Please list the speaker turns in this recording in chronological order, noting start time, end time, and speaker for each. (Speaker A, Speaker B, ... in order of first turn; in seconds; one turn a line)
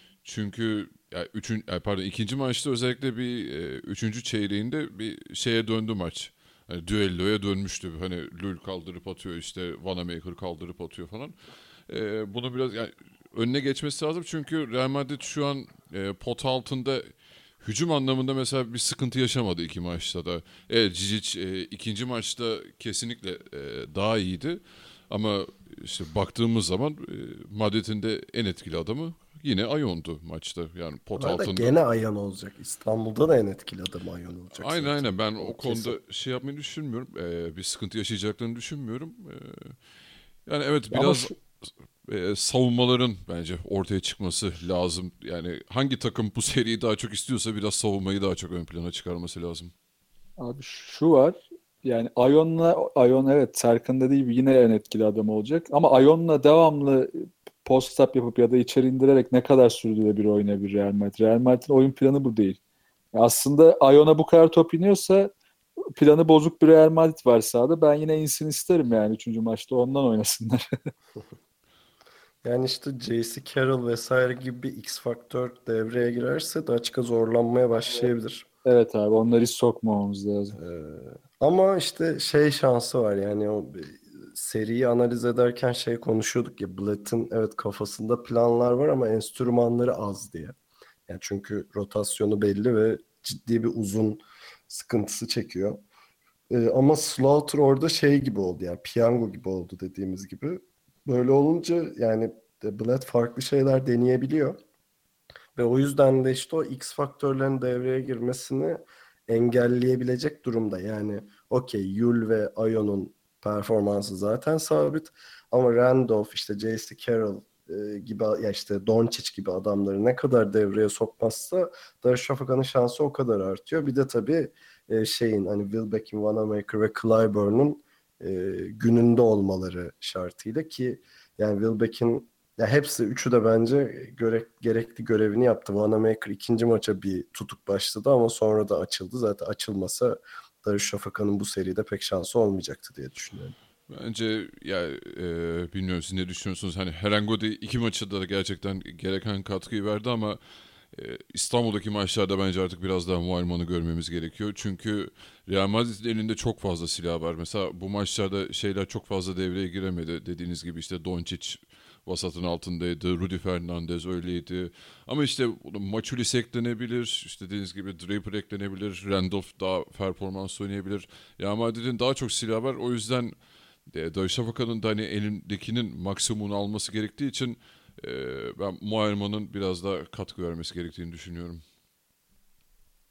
Speaker A: 0.2-11.3
Speaker A: 11.9-17.1
Speaker A: 17.6-31.7
Speaker B: 31.1-36.0
Speaker A: 34.5-39.8
Speaker A: 40.5-41.4
Speaker C: 40.9-41.2
Speaker A: 42.0-49.7
Speaker C: 50.4-62.6
Speaker C: 63.1-65.3
Speaker C: 66.0-70.7
Speaker B: 72.4-78.5
Speaker C: 78.6-80.6
Speaker B: 80.6-90.5
Speaker B: 91.1-95.8
Speaker B: 96.5-104.6
Speaker B: 105.5-143.5
Speaker A: 143.9-150.4
Speaker A: 150.9-173.4
Speaker A: 173.9-181.6